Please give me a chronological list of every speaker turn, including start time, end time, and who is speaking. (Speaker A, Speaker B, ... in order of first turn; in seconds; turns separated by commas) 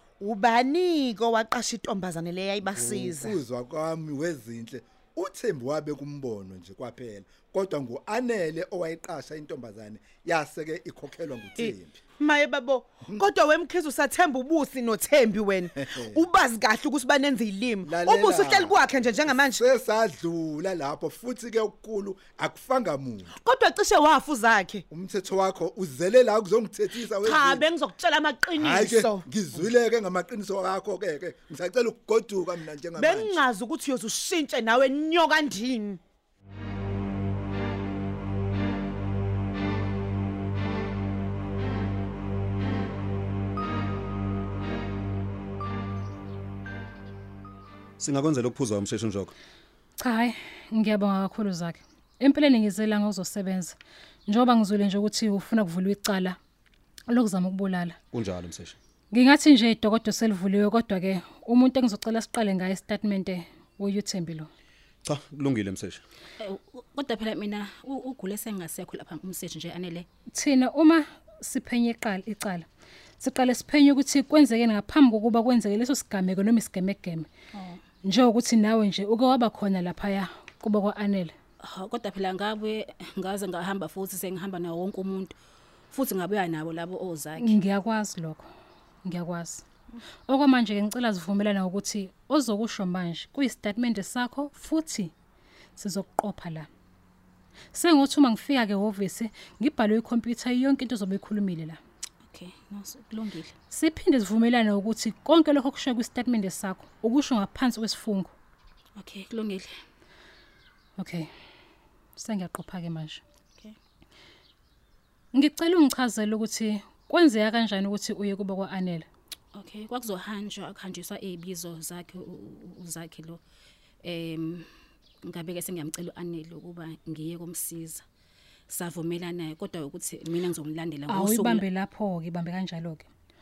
Speaker A: 0.2-3.4, Speaker B: 2.6-12.0, Speaker A: 11.6-19.6, Speaker B: 15.8-16.2, Speaker B: 17.8-23.3, Speaker A: 23.4-24.8, Speaker B: 24.9-27.6, Speaker A: 27.2-29.6, Speaker B: 28.6-33.4, Speaker A: 32.9-36.0, Speaker C: 48.0-49.3, Speaker D: 50.0-56.4, Speaker D: 57.1-58.0, Speaker C: 58.1-58.8, Speaker D: 59.1-64.5, Speaker C: 65.0-66.0, Speaker E: 66.4-70.0, Speaker D: 70.3-72.7, Speaker D: 73.2-77.3, Speaker E: 77.5-77.8, Speaker D: 78.0-81.3, Speaker E: 81.6-85.3, Speaker E: 85.9-87.6, Speaker D: 87.4-88.5, Speaker D: 89.0-89.6, Speaker D: 90.3-95.1, Speaker D: 95.8-96.7, Speaker D: 97.7-101.8, Speaker E: 102.3-103.5, Speaker D: 103.7-108.3, Speaker E: 109.0-109.7, Speaker D: 111.0-111.3, Speaker D: 112.2-113.2, Speaker D: 115.3-119.1, Speaker E: 119.5-123.4, Speaker E: 124.0-124.7, Speaker E: 125.2-128.0, Speaker E: 128.7-131.7, Speaker D: 131.1-133.1